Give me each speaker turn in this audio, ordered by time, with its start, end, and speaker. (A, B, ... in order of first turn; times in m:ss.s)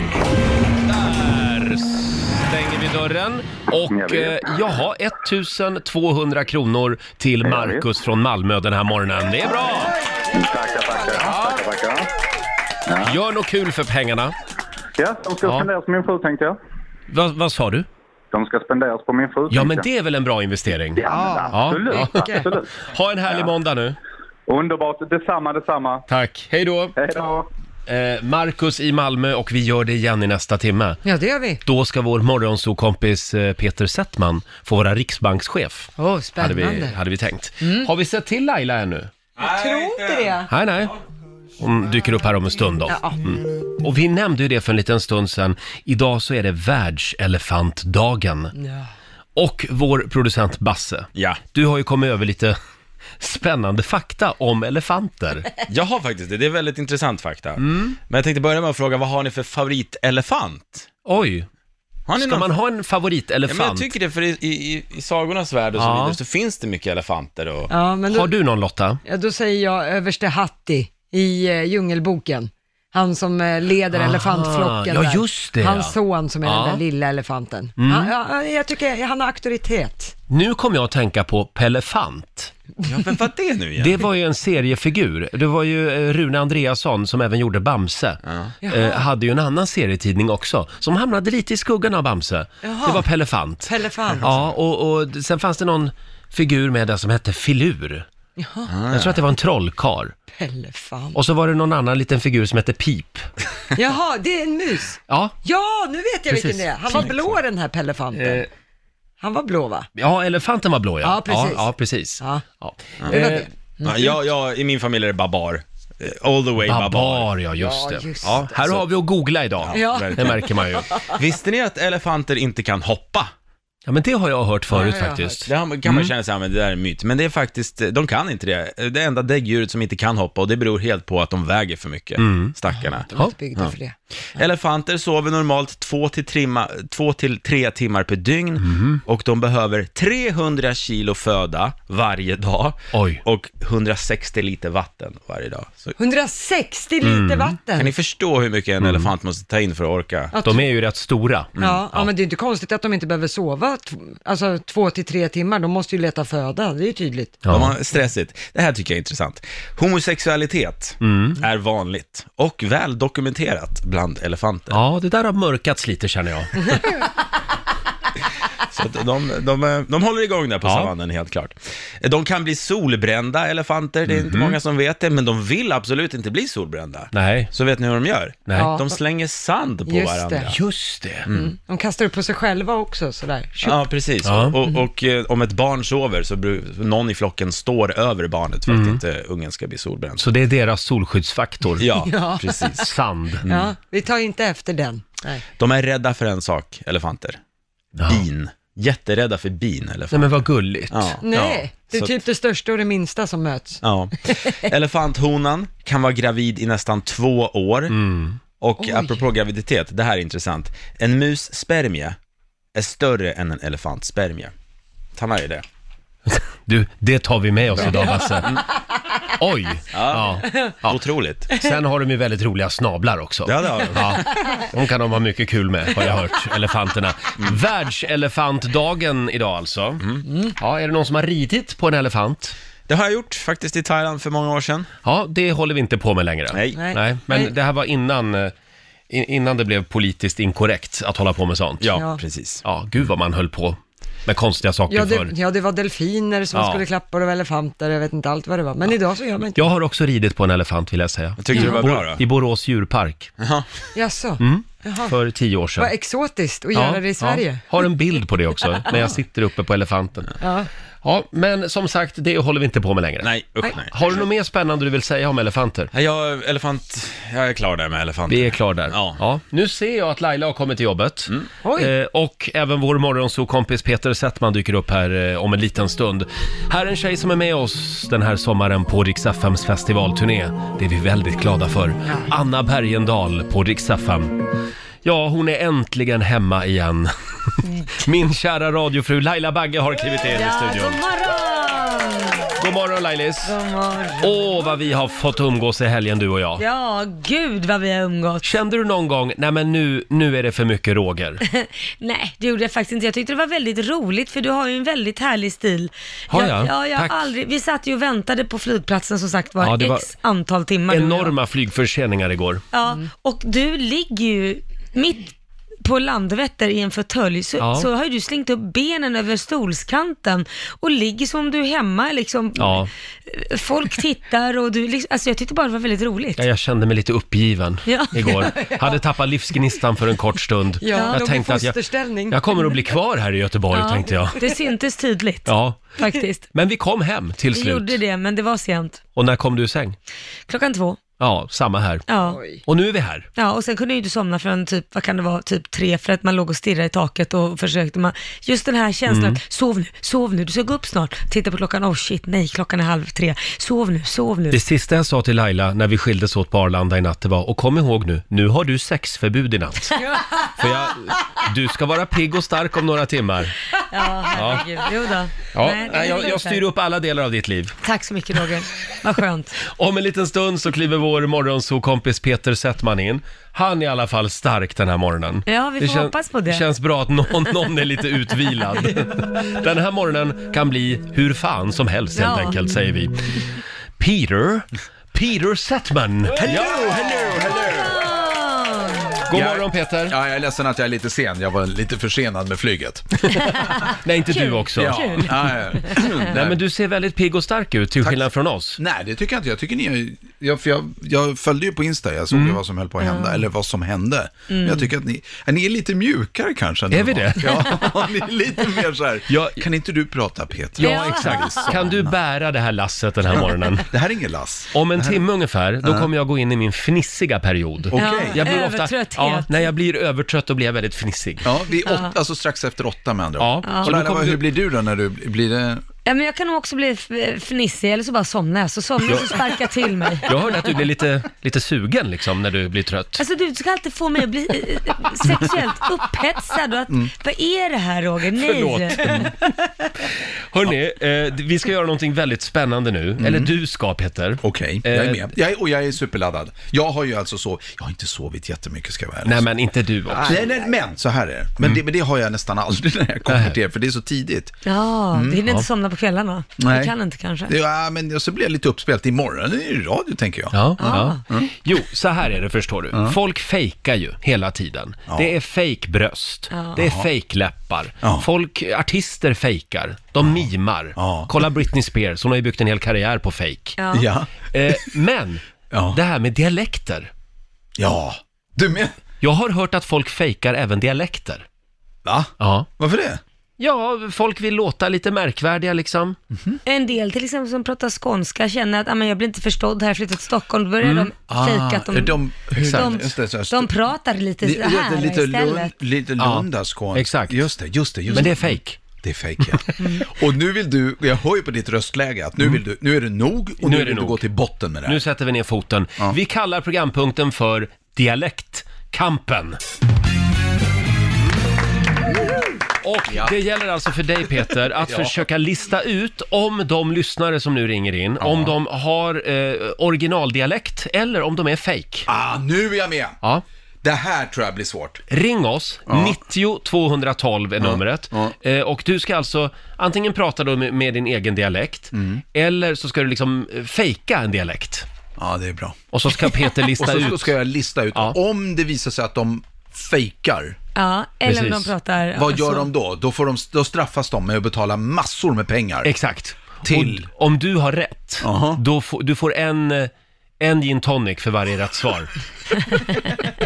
0:00.8-0:09.9 A
0:03.9-0:04.4 B
0:07.4-0:07.8 B
0:10.3-0:12.1 B
0:11.2-0:11.6 A
0:12.9-0:13.2 B
0:13.0-0:14.3 A
0:15.0-0:16.6 B
0:17.1-0:17.8 A
0:18.3-0:19.8 B
0:19.5-0:22.3 A
0:21.0-0:23.5 B
0:21.1-0:22.5 C
0:22.8-0:24.0 A
0:24.5-0:26.0 B
0:26.1-0:27.0 A
0:27.0-0:27.5 B
0:27.9-0:31.0 A
0:31.0-0:31.6 C
0:31.6-0:39.1 A
0:36.0-0:37.0 C
0:37.6-0:37.9 C
0:39.4-0:40.4 D
0:39.4-0:40.5 C
0:40.5-0:40.9 A
0:41.6-0:48.5 A
0:42.9-0:43.2 C
0:48.6-0:48.9 C
0:49.4-0:52.6 A
0:51.2-0:51.4 D
0:53.2-0:55.5 A
0:55.7-1:00.9 D
0:57.6-0:58.0 A
1:01.0-1:01.5 A
1:02.1-1:02.5 D
1:02.2-1:03.9 A
1:03.5-1:07.7 D
1:05.8-1:06.2 A
1:07.7-1:08.3 C
1:08.1-1:09.0 A
1:09.0-1:20.1 C
1:13.9-1:16.8 A
1:17.8-1:18.1 A
1:20.3-1:22.5 A
1:22.8-1:24.0 D
1:23.8-1:38.0 A
1:28.2-1:28.5 D
1:28.6-1:29.0 C
1:32.6-1:33.0 C
1:33.6-1:34.3 C
1:38.4-1:38.7 C
1:38.7-1:39.2 D
1:38.9-1:40.1 A
1:40.3-1:41.2 C
1:41.1-1:43.3 A
1:43.8-1:48.4 C
1:45.1-1:45.3 A
1:46.3-1:47.4 A
1:48.1-1:48.5 A
1:49.2-1:49.9 C
1:50.0-1:53.5 A
1:51.0-1:51.7 C
1:53.1-1:54.0 C
1:53.8-1:57.3 D
1:56.6-2:00.9 A
1:57.6-1:58.5 C
1:58.5-1:58.8 D
1:59.6-2:00.4 D
1:59.7-2:01.1 C
2:01.1-2:03.3 D
2:03.9-2:06.1 A
2:04.7-2:05.4 C
2:05.4-2:13.7 D
2:12.2-2:12.5 A
2:12.7-2:14.0 C
2:14.3-2:26.0 D
2:18.6-2:19.0 A
2:22.9-2:23.2 A
2:26.0-2:27.9 C
2:27.0-2:27.5 A
2:27.8-2:30.3 D
2:28.8-2:29.1 A
2:30.3-2:30.6 C
2:30.4-2:32.1 A
2:31.6-2:37.4 C
2:37.4-2:37.7 A
2:37.5-2:44.8 D
2:41.0-2:41.4 A
2:44.7-2:46.8 A
2:48.7-3:00.5 D
2:50.6-2:50.9 A
2:54.1-2:54.6 A
2:57.1-2:57.5 A
2:58.6-2:59.0 C
2:59.8-3:00.5 C
3:00.5-3:01.3 A
3:01.2-3:01.5 D
3:01.3-3:03.8 C
3:03.6-3:10.2 D
3:04.2-3:04.5 A
3:08.7-3:09.0 A
3:10.2-3:11.9 A
3:11.8-3:12.9 D
3:12.0-3:12.7 C
3:12.8-3:13.4 A
3:13.4-3:13.7 D
3:13.4-3:15.4 C
3:15.6-3:17.4 D
3:18.0-3:18.2 A
3:18.0-3:20.3 D
3:20.1-3:21.2 A
3:20.9-3:22.2 D
3:21.2-3:24.6 C
3:23.8-3:27.9 D
3:27.9-3:28.4 A
3:28.6-3:32.2 D
3:28.8-3:29.2 C
3:32.7-3:34.5 D
3:35.2-3:35.6 D
3:36.3-3:38.5 A
3:37.8-3:38.2 C
3:39.4-3:41.0 A
3:39.9-3:41.5 D
3:41.5-3:50.0 A
3:43.4-3:44.3 D
3:50.2-3:50.5 C
3:50.6-3:52.5 A
3:52.9-3:54.9 D
3:55.0-3:58.5 A
3:56.5-3:56.8 D
3:56.7-3:57.5 C
3:59.1-4:01.9 A
4:01.8-4:02.6 D
4:02.6-4:05.3 A
4:04.9-4:09.6 C
4:06.5-4:06.8 A
4:09.5-4:13.3 A
4:11.4-4:12.2 D
4:11.5-4:11.8 C
4:13.4-4:13.6 D
4:13.9-4:15.1 C
4:14.4-4:15.9 A
4:15.8-4:17.6 C
4:16.7-4:20.3 A
4:18.8-4:19.1 C
4:20.4-4:20.7 C
4:21.0-4:23.3 A
4:23.2-4:24.2 D
4:23.9-4:25.9 A
4:25.9-4:29.2 D
4:28.3-4:44.3 A
4:31.6-4:31.9 C
4:45.0-4:47.1 A
4:48.0-4:51.0 A
4:50.2-4:52.5 E
4:52.6-4:53.5 A
4:53.4-4:54.5 E
4:54.2-4:56.6 A
4:56.6-4:58.5 E
4:58.4-5:01.4 A
5:01.4-5:11.3 E
5:06.3-5:07.3 A
5:09.6-5:10.1 A
5:10.9-5:12.6 A
5:12.7-5:15.3 E
5:15.8-5:26.4 E
5:17.6-5:17.9 A
5:22.6-5:22.9 A
5:26.4-5:31.8 A
5:27.8-5:28.5 E
5:28.2-5:29.0 C
5:30.8-5:32.4 C
5:30.9-5:31.2 E
5:32.3-5:34.4 A
5:33.7-5:36.5 E
5:35.4-5:36.0 A
5:36.5-5:38.0 A
5:37.5-5:39.0 E
5:39.2-5:40.0 A
5:40.5-5:41.0 E
5:41.2-5:42.0 A
5:42.1-5:42.4 E
5:42.2-5:42.6 C
5:42.6-5:43.3 A
5:43.4-5:54.6 E
5:49.1-5:49.4 A
5:54.5-6:00.0 A
6:00.6-6:03.5 A
6:03.9-6:06.6 E
6:04.3-6:04.6 A
6:05.5-6:07.8 A
6:07.8-6:09.6 E
6:09.6-6:23.4 A
6:15.4-6:16.6 E
6:22.1-6:22.6 E
6:24.0-6:26.9 A
6:26.3-6:28.1 F
6:27.7-6:29.2 E
6:29.3-6:30.2 A
6:29.3-6:33.3 F
6:33.3-6:35.3 A
6:34.3-6:36.0 E
6:34.7-6:36.6 F
6:36.0-6:38.8 A
6:38.8-6:52.2 F
6:42.3-6:42.6 A
6:43.0-6:43.4 E
6:44.5-6:44.9 E
6:46.9-6:47.8 A
6:49.3-6:49.6 A
6:50.8-6:53.9 A
6:50.8-6:51.7 E
6:53.3-6:55.2 F
6:54.7-7:01.5 A
6:55.8-6:56.1 F
6:57.9-6:58.6 F
6:57.9-6:59.7 E
7:01.4-7:05.8 F
7:01.8-7:02.1 E
7:03.4-7:04.4 A
7:03.6-7:03.9 E
7:06.0-7:10.3 E
7:09.0-7:09.4 A
7:10.2-7:13.2 A
7:13.2-7:19.3 E
7:18.4-7:19.3 A
7:20.5-7:25.3 A
7:23.2-7:23.5 F
7:24.4-7:29.4 F
7:29.2-7:30.4 A
7:30.1-7:30.4 C
7:30.2-7:34.5 F
7:33.3-7:33.6 A
7:34.6-7:37.5 E
7:35.1-7:35.4 F
7:36.6-7:36.9 F
7:37.5-7:41.5 F
7:40.5-7:53.8 A
7:40.8-7:41.2 E
7:46.5-7:46.8 E
7:46.8-7:47.1 F
7:48.0-7:48.3 F
7:50.2-7:51.3 F
7:53.8-7:54.0 E
7:53.9-7:54.3 F
7:54.5-7:57.1 A
7:55.7-7:56.0 F
7:57.8-7:59.0 F
7:59.2-8:01.4 A
8:02.0-8:03.2 F
8:02.4-8:02.7 A
8:03.6-8:06.2 A
8:06.3-8:06.6 F
8:06.6-8:15.7 E
8:10.8-8:11.1 A
8:11.3-8:13.7 F
8:12.6-8:13.0 A
8:14.4-8:25.0 F
8:16.2-8:17.4 A
8:18.1-8:18.8 A
8:19.8-8:20.1 E
8:23.6-8:24.2 A
8:24.8-8:29.6 A
8:32.8-8:42.1 A
8:33.1-8:33.4 F
8:34.9-8:35.2 F
8:38.2-8:38.5 F
8:42.1-8:43.2 F
8:43.8-8:45.0 F
8:45.1-8:54.8 A
8:45.9-8:46.2 F
8:47.6-8:48.3 F
8:51.9-8:52.2 F
8:55.2-8:55.8 F
8:55.9-8:57.3 A
8:56.8-9:00.6 F
9:00.8-9:02.7 E
9:01.2-9:01.7 A
9:02.1-9:05.9 F
9:05.8-9:12.1 A
9:06.6-9:07.1 F
9:08.2-9:08.6 F